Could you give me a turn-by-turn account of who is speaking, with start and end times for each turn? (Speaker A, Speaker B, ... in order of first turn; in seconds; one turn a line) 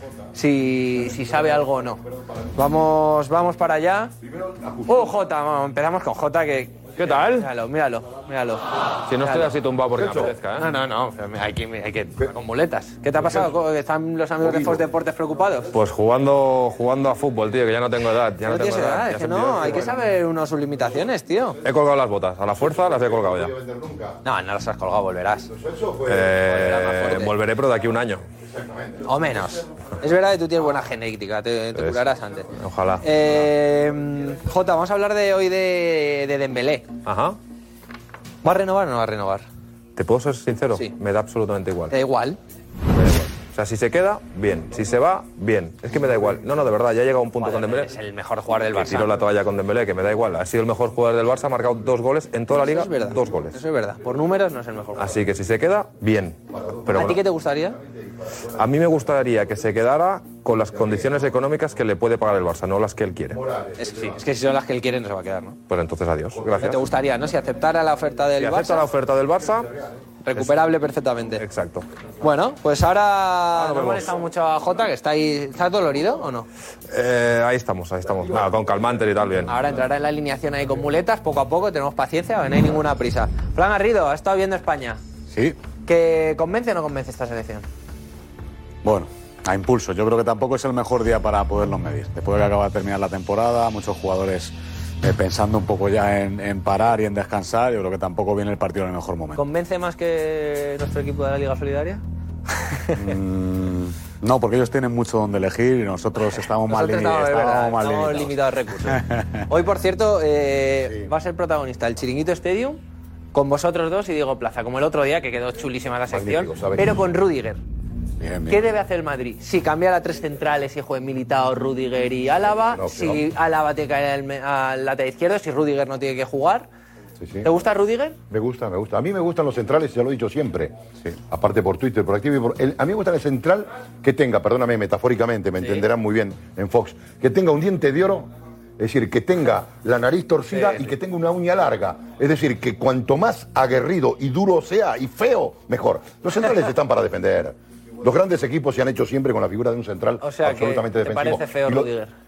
Speaker A: 0.3-2.0
Speaker B: 2.0-2.5
Speaker A: 2.5-4.1
Speaker B: 4.2-5.2
Speaker A: 4.9-8.7
Speaker C: 7.0-7.5
Speaker C: 9.1-10.7
Speaker A: 9.2-9.5
Speaker B: 9.9-10.3
Speaker A: 10.5-15.7
Speaker B: 14.4-14.8
Speaker C: 15.7-19.9
Speaker A: 18.4-21.6
Speaker C: 21.6-23.5
Speaker B: 22.5-24.2
Speaker A: 24.2-25.5
Speaker B: 25.5-26.5
Speaker C: 26.1-28.2
Speaker A: 26.4-27.3
Speaker B: 28.4-29.2
Speaker A: 29.0-32.5
Speaker C: 32.5-33.0
Speaker A: 33.0-37.0
Speaker C: 37.0-37.4
Speaker A: 38.4-39.4
Speaker C: 40.0-41.9
Speaker A: 41.9-42.4
Speaker C: 42.9-48.0
Speaker A: 47.4-49.2
Speaker C: 48.7-53.5
Speaker A: 52.5-55.2
Speaker C: 55.0-57.2
Speaker B: 56.5-57.2
Speaker A: 56.9-57.8
Speaker B: 57.8-58.6
Speaker C: 58.5-63.4
Speaker B: 60.8-61.1
Speaker B: 63.3-64.2
Speaker A: 63.8-65.6
Speaker C: 65.7-66.8
Speaker A: 66.6-68.9
Speaker C: 68.4-69.7
Speaker A: 70.2-71.4
Speaker C: 70.3-70.6
Speaker C: 71.4-71.8
Speaker A: 72.2-76.5
Speaker C: 73.5-74.0
Speaker C: 76.9-79.5
Speaker B: 78.2-78.6
Speaker A: 79.5-85.0
Speaker D: 85.3-85.5
Speaker A: 85.8-87.7
Speaker D: 88.8-99.4
Speaker A: 99.3-102.0
Speaker A: 102.7-103.1
Speaker D: 103.0-109.4
Speaker A: 106.3-112.8
Speaker A: 113.3-117.6
Speaker B: 116.1-117.0
Speaker D: 118.2-118.6
Speaker A: 118.5-126.7
Speaker B: 122.7-123.2
Speaker B: 127.2-127.5
Speaker A: 127.4-128.2
Speaker B: 128.3-151.9
Speaker A: 140.5-140.9
Speaker A: 150.2-152.1